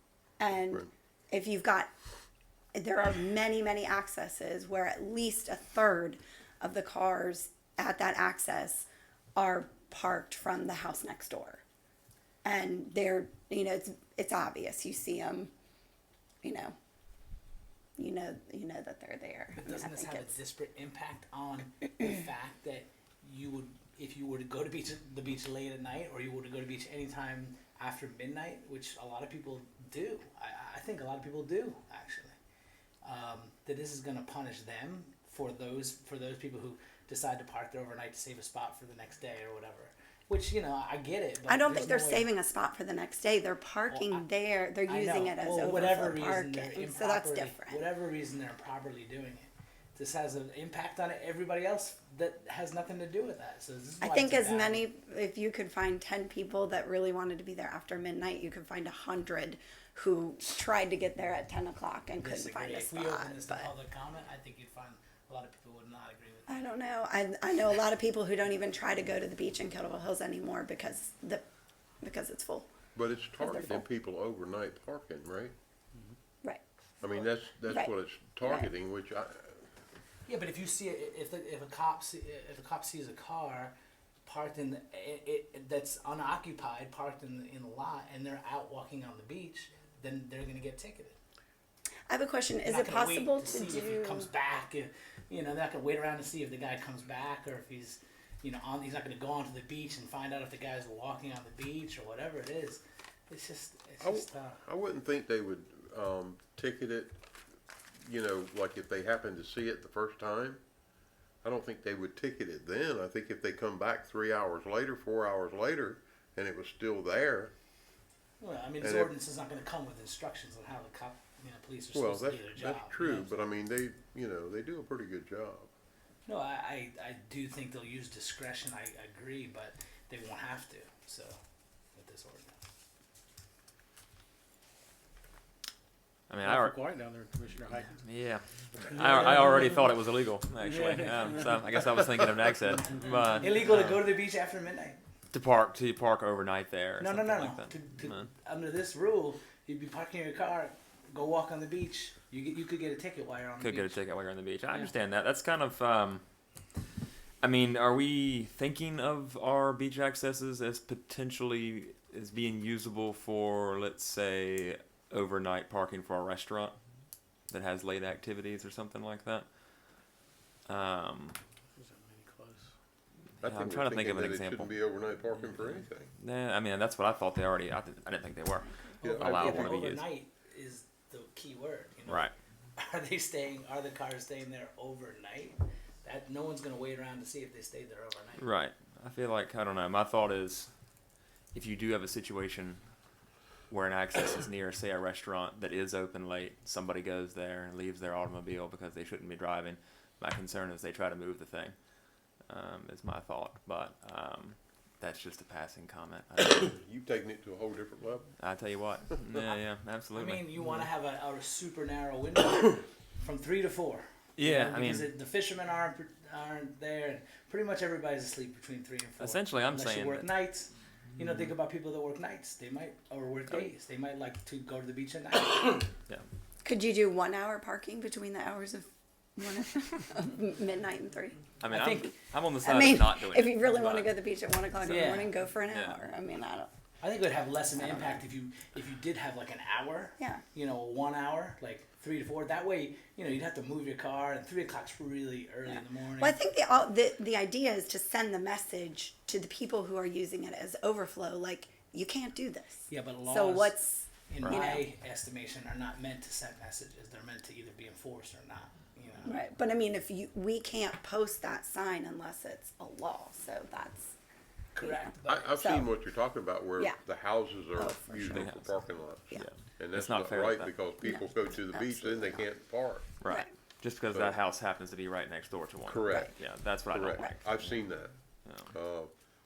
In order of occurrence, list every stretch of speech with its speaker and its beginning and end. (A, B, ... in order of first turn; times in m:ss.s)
0:00.4-0:01.9 A
0:02.8-0:11.6 A
0:12.4-0:15.5 A
0:16.4-0:16.7 A
0:18.0-0:20.4 A
0:19.5-0:32.4 B
0:33.0-0:42.3 B
0:41.5-0:47.8 A
0:43.9-0:44.2 B
0:44.9-0:54.9 B
0:54.0-1:03.7 A
1:02.2-1:06.6 B
1:06.5-1:11.4 A
1:12.0-1:12.7 A
1:13.0-1:15.5 C
1:13.4-1:13.8 A
1:17.0-1:19.6 C
1:20.3-1:23.7 B
1:24.2-1:31.2 B
1:32.1-1:34.3 A
1:32.6-1:44.6 B
1:44.0-1:47.2 C
1:48.0-1:50.6 C
1:51.4-1:57.5 C
1:58.4-2:03.3 B
1:58.8-1:59.1 C
2:01.9-2:05.7 C
2:06.3-2:11.4 B
2:12.0-2:12.6 B
2:16.3-2:16.8 D
2:16.4-2:18.0 E
2:18.0-2:24.0 D
2:18.8-2:19.5 E
2:19.0-2:19.3 B
2:20.6-2:21.6 E
2:22.7-2:25.0 B
2:25.3-2:28.3 D
2:27.0-2:34.0 B
2:33.6-2:36.2 D
2:37.4-2:46.8 D
2:47.5-2:49.5 D
2:50.7-2:51.4 D
2:51.8-2:52.7 E
2:53.4-2:54.7 D
2:53.4-2:56.1 C
2:55.6-3:00.0 D
2:59.0-3:08.4 B
2:59.0-2:59.9 C
3:02.1-3:02.3 D
3:08.4-3:10.7 D
3:11.5-3:12.8 D
3:13.7-3:26.7 D
3:26.6-3:28.3 C
3:28.4-3:30.4 D
3:30.1-3:45.9 B
3:34.4-3:35.1 D
3:39.2-3:40.3 D
3:46.6-3:51.4 A
3:51.6-3:54.1 D
3:51.7-3:52.1 B
3:51.9-3:56.7 A
3:54.8-3:55.4 B
3:55.6-3:56.0 D
3:57.0-4:06.4 B
3:57.8-3:58.2 A
4:06.2-4:14.8 A
4:12.9-4:19.4 B
4:19.2-4:24.2 A
4:24.7-4:25.6 B
4:25.3-4:33.1 C
4:25.6-4:25.9 A
4:27.7-4:28.6 A
4:28.3-4:30.7 D
4:31.0-4:32.4 A
4:33.2-4:37.8 D
4:33.2-4:33.5 A
4:35.9-4:36.3 C
4:36.9-4:38.1 C
4:38.4-4:38.7 D
4:38.6-4:39.1 C